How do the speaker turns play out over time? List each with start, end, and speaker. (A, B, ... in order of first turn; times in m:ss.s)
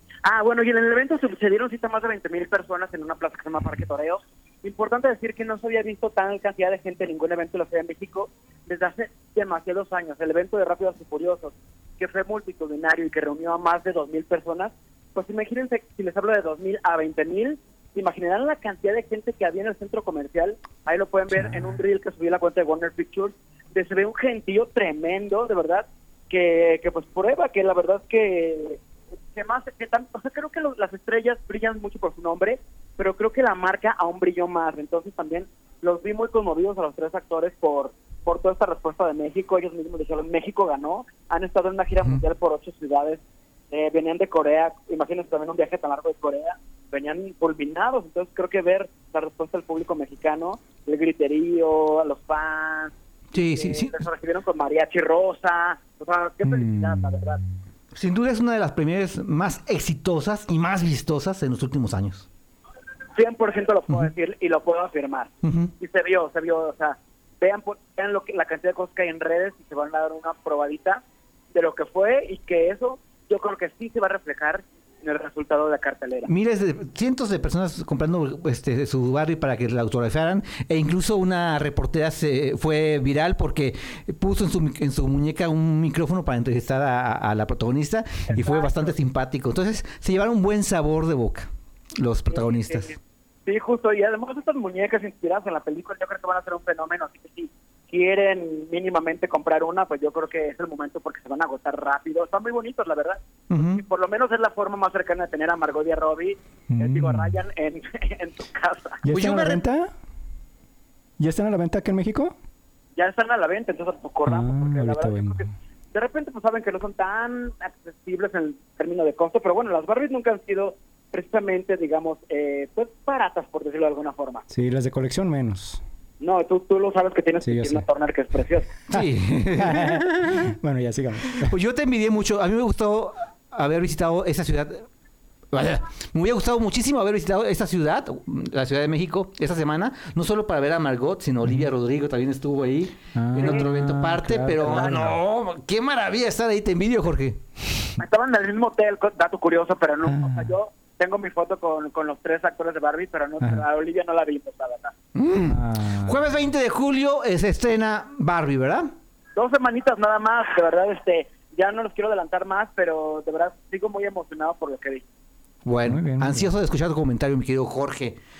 0:00.2-0:28.8 A
0:21.3-0:21.7 B
0:29.3-0:57.4 A
0:53.3-0:54.0 C
0:56.4-0:57.5 B
0:57.9-1:02.3 C
1:03.1-1:11.0 A
1:05.4-1:05.7 C
1:11.5-1:16.3 A
1:16.2-1:32.9 C
1:28.3-1:29.0 A
1:32.3-1:49.0 A
1:43.5-1:43.8 C
1:46.7-1:47.4 B
1:49.0-1:49.9 B
1:49.1-1:49.6 C
1:51.2-1:52.4 B
1:53.0-2:04.4 A
1:54.2-1:55.5 B
2:04.5-2:05.8 B
2:06.2-2:08.7 A
2:07.4-2:07.8 B
2:08.9-2:10.5 C
2:08.9-2:11.5 B
2:11.4-2:14.9 C
2:15.5-2:27.4 C
2:23.1-2:25.2 B
2:23.4-2:23.6 A
2:24.5-2:25.1 A
2:28.0-2:34.9 A
2:30.0-2:30.5 B
2:35.1-2:38.9 C
2:35.4-2:36.2 B
2:39.4-2:45.0 A
2:45.6-2:48.2 C
2:45.8-2:46.5 B